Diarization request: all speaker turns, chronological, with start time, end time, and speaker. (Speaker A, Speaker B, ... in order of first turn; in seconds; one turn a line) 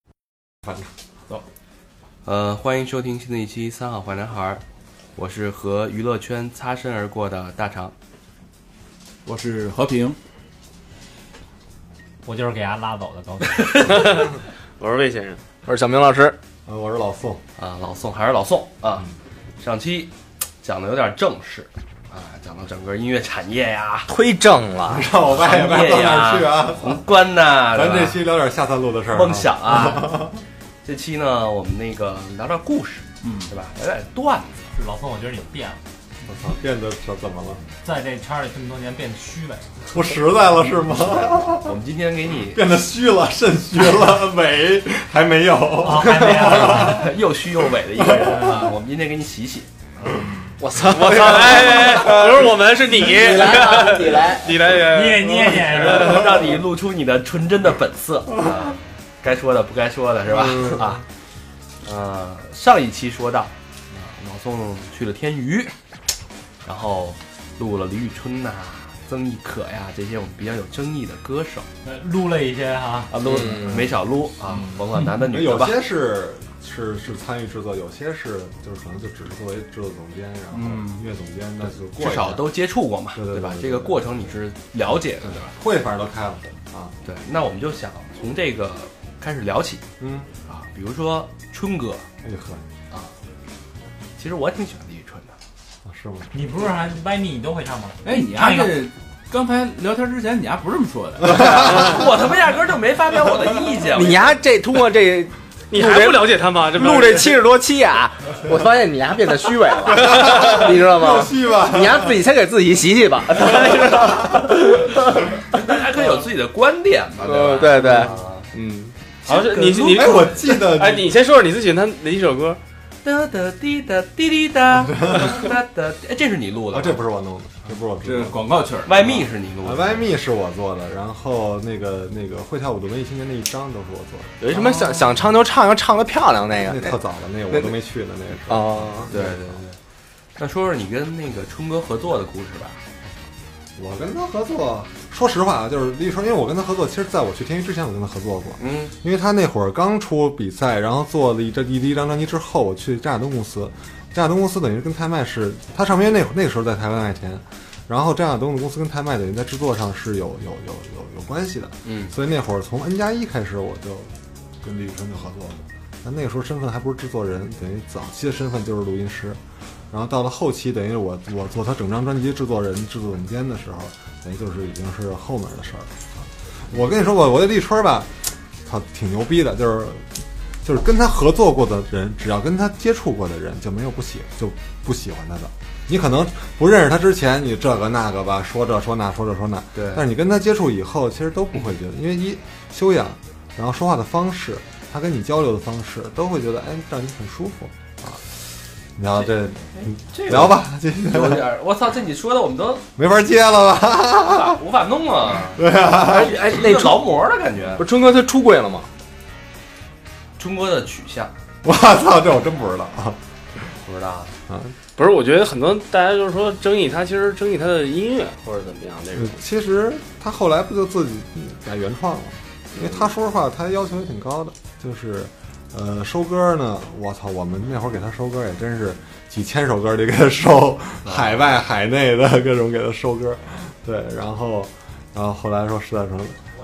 Speaker A: 0.6-0.9
Speaker B: 2.2-4.6
Speaker B: 5.2-7.9
Speaker C: 9.2-10.2
Speaker D: 12.2-14.2
Speaker E: 13.8-15.4
Speaker F: 15.7-16.4
Speaker A: 16.6-17.4
Speaker B: 17.6-19.1
Speaker B: 19.6-24.1
Speaker F: 24.1-25.1
Speaker A: 24.9-27.0
Speaker B: 25.2-28.2
Speaker A: 27.7-30.4
Speaker B: 29.1-30.3
Speaker B: 30.8-34.6
Speaker C: 33.2-33.5
Speaker D: 34.7-35.8
Speaker A: 36.3-37.6
Speaker D: 37.8-39.7
Speaker A: 39.9-41.8
Speaker B: 40.5-42.6
Speaker A: 42.5-47.1
Speaker D: 45.8-47.1
Speaker B: 46.0-49.7
Speaker A: 48.0-48.5
Speaker D: 50.2-50.5
Speaker F: 50.6-54.5
Speaker E: 50.9-56.3
Speaker D: 54.8-56.2
Speaker B: 55.4-61.0
Speaker B: 61.8-65.7
Speaker B: 66.6-71.7
Speaker D: 71.8-73.1
Speaker B: 73.1-75.8
Speaker F: 73.3-73.8
Speaker A: 75.2-82.5
Speaker C: 80.5-81.0
Speaker B: 81.9-85.5
Speaker A: 83.1-84.0
Speaker A: 85.2-86.9
Speaker B: 87.0-89.8
Speaker A: 90.0-90.3
Speaker B: 90.5-92.0
Speaker A: 92.2-92.6
Speaker B: 94.2-95.3
Speaker A: 95.8-96.3
Speaker D: 96.3-98.9
Speaker C: 98.0-101.5
Speaker B: 101.3-104.3
Speaker F: 103.9-114.9
Speaker E: 105.7-107.4
Speaker E: 110.0-110.4
Speaker A: 110.0-112.1
Speaker B: 115.5-118.5
Speaker F: 117.2-118.9
Speaker B: 119.2-120.4
Speaker E: 119.2-122.6
Speaker A: 119.9-121.1
Speaker B: 123.0-127.0
Speaker A: 126.7-128.4
Speaker C: 128.0-129.2
Speaker B: 128.8-130.1
Speaker A: 129.6-134.8
Speaker F: 134.4-136.9
Speaker A: 136.6-139.5
Speaker F: 138.5-139.1
Speaker B: 139.1-139.8
Speaker B: 140.4-142.8
Speaker A: 143.8-176.1
Speaker B: 148.6-148.9
Speaker B: 161.8-162.1
Speaker A: 176.7-180.1
Speaker A: 180.6-198.2
Speaker B: 189.8-190.0
Speaker A: 199.0-201.5
Speaker B: 199.2-202.8
Speaker A: 202.9-204.6
Speaker B: 204.3-207.9
Speaker A: 205.5-206.4
Speaker F: 206.3-207.1
Speaker F: 207.8-208.9
Speaker B: 210.4-211.3
Speaker A: 211.6-213.2
Speaker B: 213.8-214.3
Speaker A: 214.5-214.7
Speaker E: 215.0-219.4
Speaker A: 219.1-236.3
Speaker B: 231.0-231.4